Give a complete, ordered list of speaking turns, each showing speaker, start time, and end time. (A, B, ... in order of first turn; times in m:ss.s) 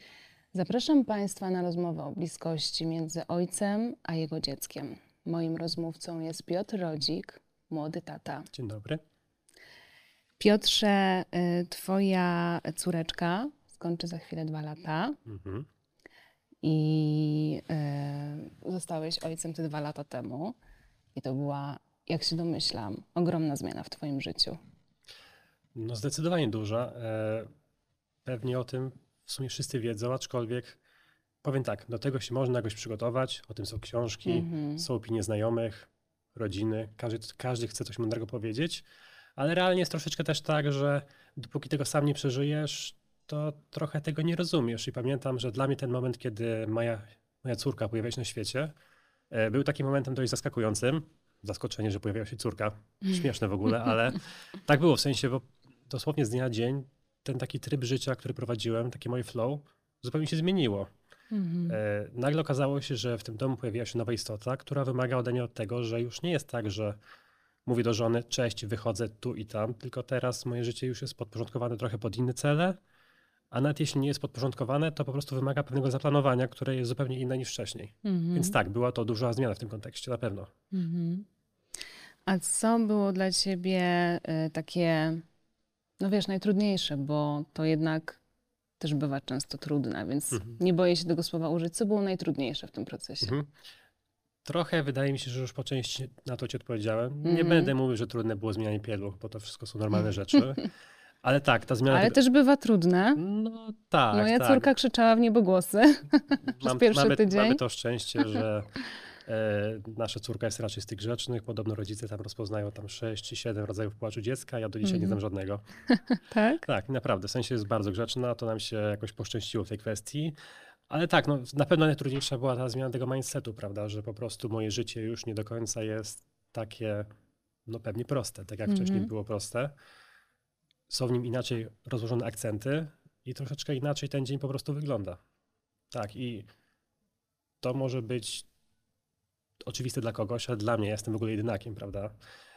0:00.5-0:08.5 A
0:08.5-0:09.0 B
0:10.4-0:15.2 A
0:15.2-0:15.7 B
0:16.6-0:20.6 A
0:21.2-0:24.6 A
0:25.7-0:27.5 B
0:28.2-0:30.8 B
0:31.4-0:48.7 B
0:34.2-0:34.8 A
0:49.3-1:00.9 B
1:01.3-1:01.8 A
1:01.6-1:07.0 B
1:07.7-1:12.8 B
1:13.5-1:20.5 B
1:18.0-1:18.6 A
1:20.7-1:21.2 A
1:22.3-1:25.2 A
1:26.0-1:28.2 A
1:28.8-1:33.4 A
1:30.3-1:30.6 B
1:33.2-1:33.5 B
1:34.4-1:40.7 B
1:37.2-1:37.7 A
1:41.2-1:42.2 B
1:41.9-1:43.2 A
1:43.2-1:44.7 B
1:44.1-1:47.6 A
1:46.6-1:48.7 B
1:49.2-1:55.6 B
1:54.8-1:55.2 A
1:55.9-1:56.6 A
1:56.6-2:00.3 B
2:00.9-2:07.1 B
2:07.7-2:09.7 B
2:08.7-2:09.1 A
2:10.9-2:15.2 B
2:15.9-2:16.5 B
2:17.6-2:18.5 B
2:19.7-2:22.2 B